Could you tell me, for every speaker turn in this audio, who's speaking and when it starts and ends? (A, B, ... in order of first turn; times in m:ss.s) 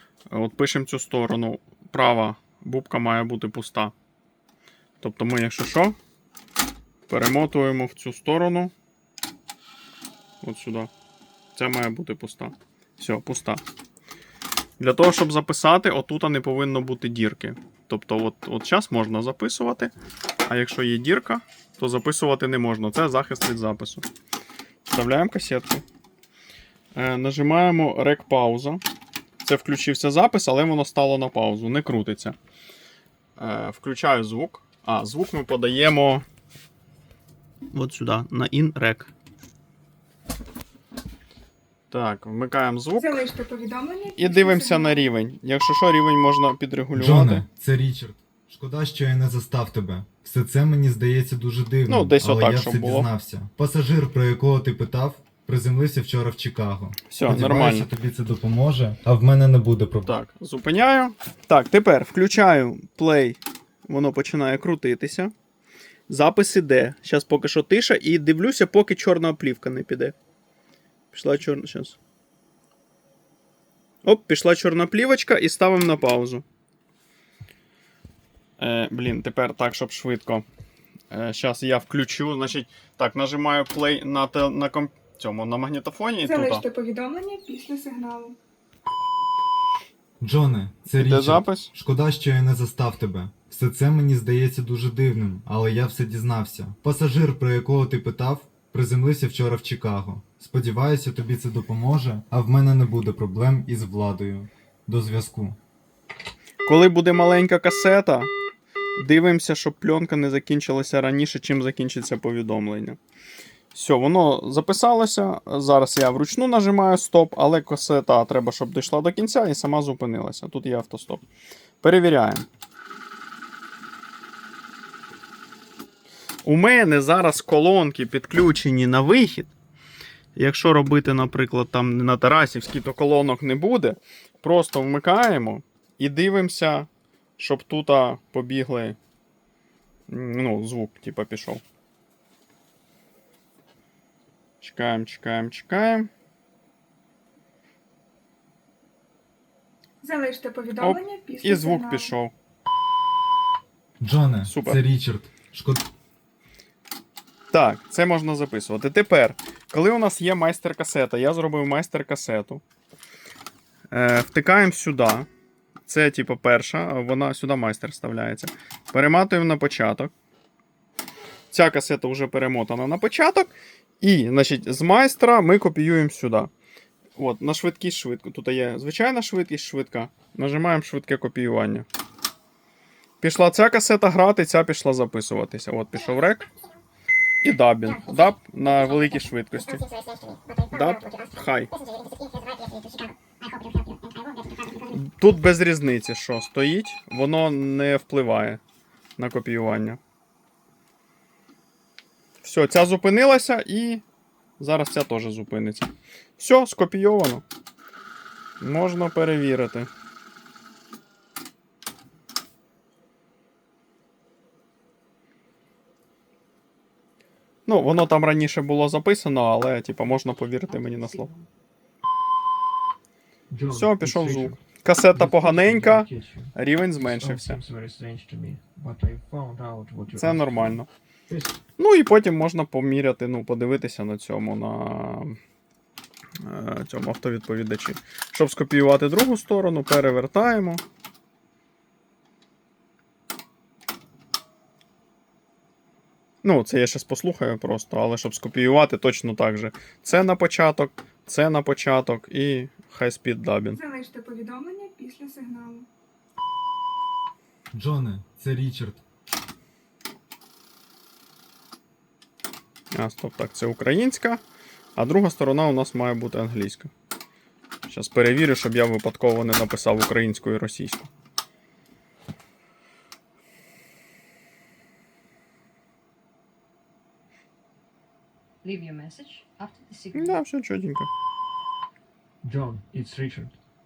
0:00.3-0:03.9 A
0:05.0-0:06.0 A
0:07.1-0:08.7 A
0:10.4-0:10.9 A
0:11.5-0:13.6 A
0:14.8-0:19.9 A
0:20.4-0:24.0 A
0:24.8-0:25.8 A
0:26.9-0:28.8 A
0:29.4-0:32.4 A
0:33.4-0:36.2 A
0:37.7-0:39.1 A
0:41.9-0:43.2 A
0:43.0-0:45.0 B
0:44.2-0:47.4 A
0:47.0-1:00.1 C
0:51.9-0:53.1 A
0:57.1-0:57.9 A
1:00.0-1:05.3 A
1:06.1-1:10.1 A
1:11.1-1:12.0 A
1:14.0-1:16.4 A
1:18.6-1:20.4 A
1:21.1-1:26.6 A
1:26.2-1:28.4 B
1:30.2-1:45.6 C
1:31.0-1:31.7 A
1:46.6-1:48.3 A
1:49.0-1:53.0 A
1:53.7-2:01.2 A
2:01.8-2:02.5 A
2:06.4-2:09.5 A
2:10.3-2:19.0 A
2:20.1-2:21.6 A
2:24.6-2:26.1 A
2:30.0-2:32.1 B
2:30.8-2:32.3 A
2:34.0-2:35.8 C
2:34.4-2:34.8 A
2:37.5-2:42.6 A
2:43.9-2:45.3 A
2:45.9-2:50.1 A
2:51.5-2:56.5 A
2:57.2-3:01.8 A
3:03.2-3:06.4 A
3:07.4-3:09.8 A
3:10.6-3:11.7 A
3:14.8-3:18.6 A
3:19.2-3:20.0 A
3:22.4-3:24.0 A
3:24.6-3:27.4 A
3:28.6-3:29.9 A
3:37.6-3:41.3 A
3:40.7-3:41.5 D
3:43.5-3:51.6 E
3:43.7-3:47.6 A
3:50.1-3:50.9 A
3:51.8-3:55.4 A
3:56.4-4:00.8 A
4:06.4-4:13.8 A
4:13.8-4:15.9 B
4:17.7-4:19.0 C
4:22.9-4:24.4 A
4:25.0-4:26.9 A
4:27.9-4:31.1 A
4:38.6-4:40.4 D
4:40.1-4:41.1 A
4:42.4-4:43.6 E